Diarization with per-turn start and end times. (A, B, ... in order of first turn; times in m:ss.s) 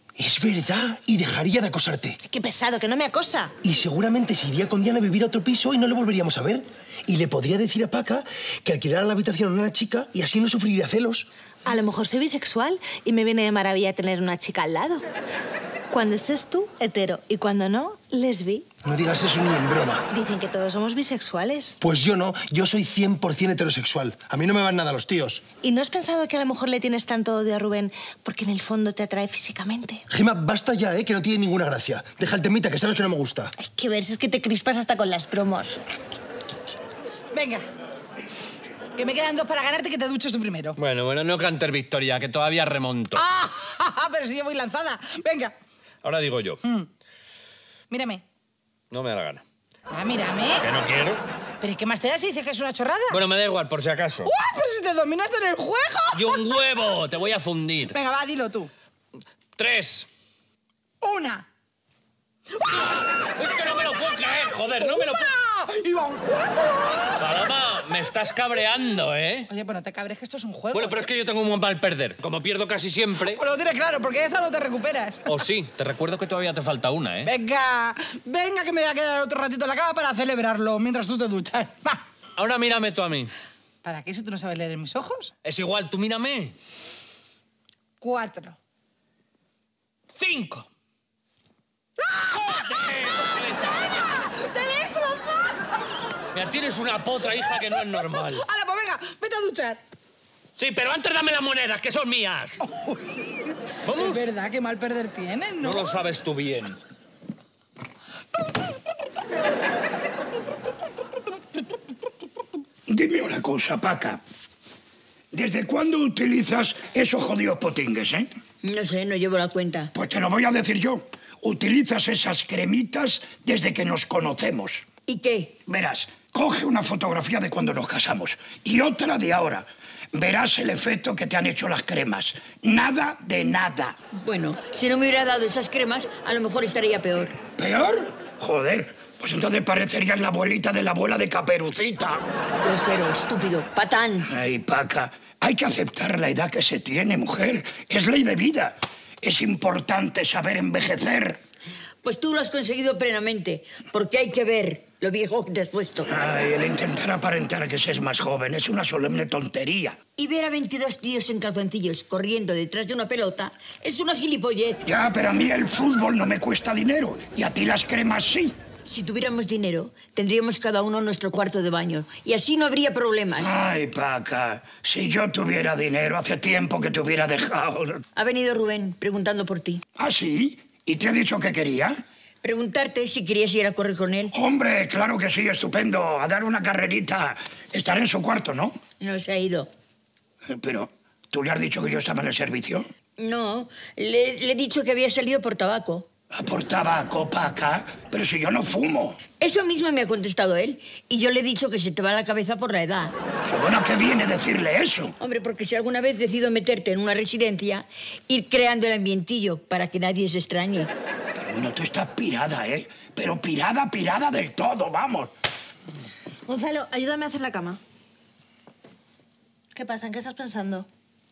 0:00.2-0:02.2 A
0:02.2-0:03.5 B
0:03.6-0:11.3 A
0:11.6-0:15.0 B
0:15.9-0:18.7 B
0:18.8-0:20.1 A
0:20.1-0:21.8 B
0:21.8-0:25.4 A
0:25.6-0:30.0 B
0:30.1-0:33.5 A
0:33.6-0:35.8 B
0:37.3-0:37.6 C
0:39.0-0:40.8 C
0:40.8-0:43.2 D
0:43.2-0:45.5 C
0:46.0-0:46.6 D
0:47.9-0:48.2 C
0:48.9-0:49.4 D
0:49.9-0:50.7 C
0:50.6-0:51.2 D
0:51.6-0:53.2 C
0:53.1-0:54.3 D
0:54.2-0:56.6 C
0:56.1-0:58.0 D
0:57.9-0:58.7 C
0:59.6-1:00.1 D
1:01.0-1:01.5 C
1:02.7-1:05.3 D
1:03.2-1:07.2 C
1:07.2-1:09.5 D
1:09.5-1:11.1 C
1:10.7-1:13.4 D
1:13.3-1:15.3 C
1:15.3-1:17.3 D
1:17.2-1:22.0 C
1:22.4-1:23.3 D
1:23.8-1:25.3 C
1:25.4-1:26.5 D
1:28.0-1:28.6 C
1:30.2-1:30.6 D
1:32.0-1:35.6 C
1:32.4-1:34.0 D
1:36.3-1:38.4 D
1:37.9-1:39.8 C
1:40.6-1:42.7 D
1:43.8-1:44.2 D
1:43.9-1:45.9 C
1:45.6-1:46.8 D
1:52.9-1:54.2 E
1:55.3-1:58.3 E
1:58.6-1:59.9 F
1:59.9-2:04.8 E
2:05.1-2:05.5 F
2:05.7-2:14.0 E
2:14.1-2:17.4 F
2:17.6-2:22.2 E
2:22.6-2:24.3 F
2:24.3-2:31.4 E
2:32.0-2:36.1 F
2:36.1-2:40.0 E
2:40.2-2:44.8 F
2:44.8-2:48.6 E
2:48.8-2:53.5 F
2:53.4-2:58.0 E
2:58.2-2:59.8 F
3:00.0-3:01.9 E
3:02.4-3:04.3 F
3:04.3-3:08.8 E
3:09.0-3:09.7 F
3:10.5-3:12.8 E
3:13.2-3:16.1 F
3:16.3-3:19.2 E
3:19.4-3:23.1 F
3:23.4-3:25.1 E
3:25.2-3:30.9 F
3:31.3-3:35.3 E
3:36.5-3:37.8 B
3:39.7-3:40.9 B